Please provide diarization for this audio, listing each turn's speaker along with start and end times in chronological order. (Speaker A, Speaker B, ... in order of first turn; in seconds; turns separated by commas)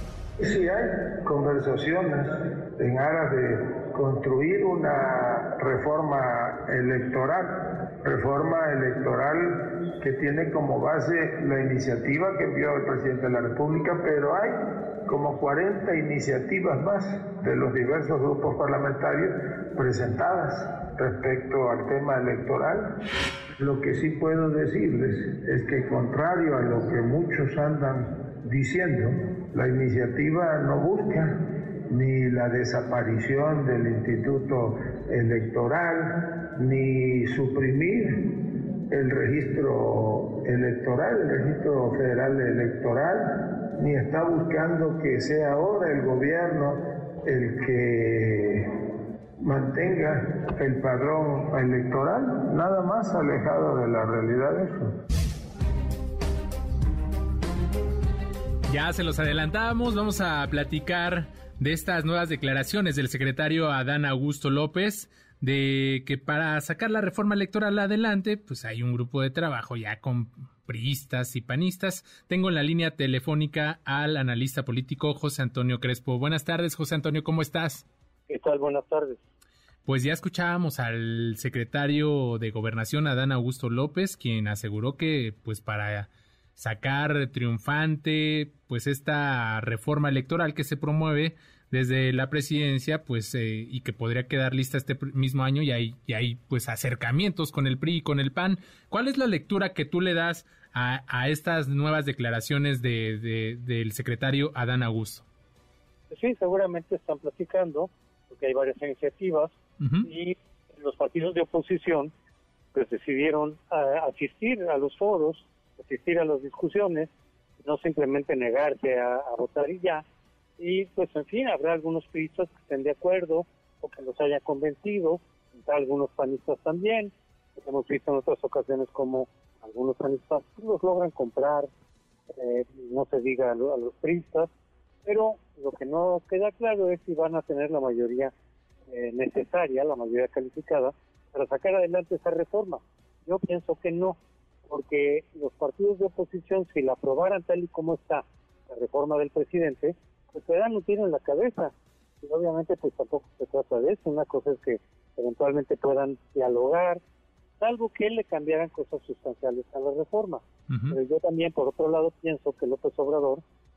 Speaker A: 0.4-7.5, Speaker A: 8.0-22.9, Speaker A: 23.6-38.3, Speaker A: 38.9-48.7, Speaker A: 49.4-54.9, Speaker B: 58.7-77.8, Speaker C: 78.3-79.2, Speaker B: 79.8-105.2, Speaker C: 106.1-112.1, Speaker B: 109.8-110.1, Speaker C: 112.7-117.1, Speaker C: 117.6-120.0, Speaker C: 120.6-131.7, Speaker C: 132.3-134.5, Speaker C: 135.0-138.3, Speaker C: 138.9-157.0, Speaker C: 157.6-163.4, Speaker B: 160.7-161.0